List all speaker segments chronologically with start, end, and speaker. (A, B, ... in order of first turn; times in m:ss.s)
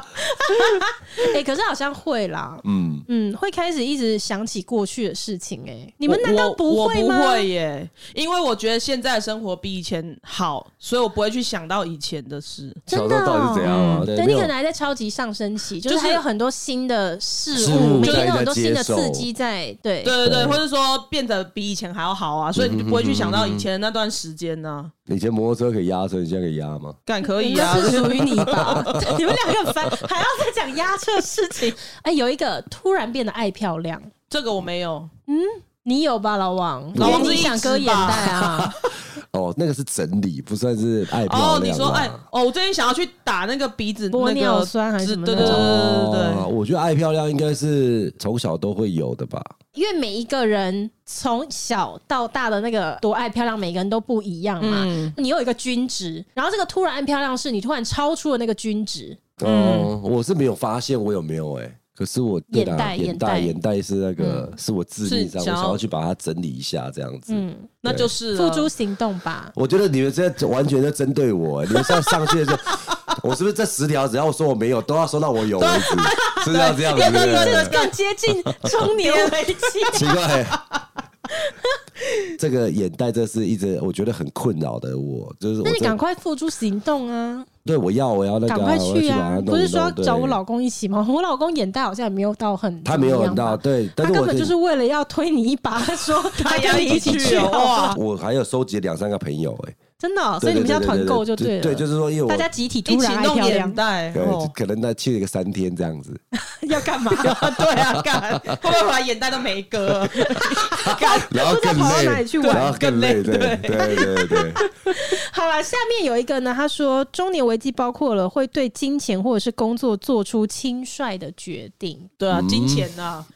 0:00.2-0:07.4 A
0:02.6-0:03.0 B
0:06.1-0:12.8 C
0:12.9-0:20.1 A
0:12.9-0:14.5 B
0:13.6-0:14.1 C
0:15.8-0:16.2 C
0:17.5-0:19.3 B
0:18.0-0:18.3 C
0:20.0-0:24.9 C
0:20.2-0:20.6 B
0:22.5-0:23.7 B
0:25.1-0:27.0 B
0:27.1-0:28.9 C
0:27.4-0:34.1 A
0:27.6-0:29.4 B
0:34.3-0:35.1 C
0:35.3-0:38.8 A
0:36.9-0:42.2 B
0:37.0-0:38.4 C
0:41.2-0:46.5 C
0:44.1-0:45.7 A
0:45.4-0:49.5 B
0:49.7-0:59.2 A
0:54.6-0:55.1 C
0:59.4-1:08.1 B
0:59.4-0:59.9 C
1:02.5-1:03.5 A
1:04.2-1:04.5 C
1:05.0-1:05.8 C
1:07.3-1:07.7 A
1:07.8-1:08.7 C
1:08.3-1:09.5 A
1:09.5-1:17.7 B
1:15.6-1:17.9 C
1:16.1-1:20.1 A
1:18.7-1:20.8 C
1:19.9-1:20.6 B
1:22.4-1:26.0 B
1:25.6-1:27.5 A
1:27.6-1:30.4 B
1:28.5-1:38.0 A
1:32.8-1:34.5 B
1:36.4-1:38.0 C
1:36.7-1:39.8 B
1:40.0-1:43.8 A
1:40.4-1:42.5 B
1:42.9-1:44.5 C
1:44.1-1:46.2 B
1:46.4-1:47.5 A
1:47.2-1:51.3 C
1:47.5-1:48.6 B
1:50.4-1:52.8 A
1:50.7-1:54.6 B
1:52.4-1:54.6 C
1:53.8-2:02.1 A
2:02.2-2:03.3 C
2:02.3-2:02.9 B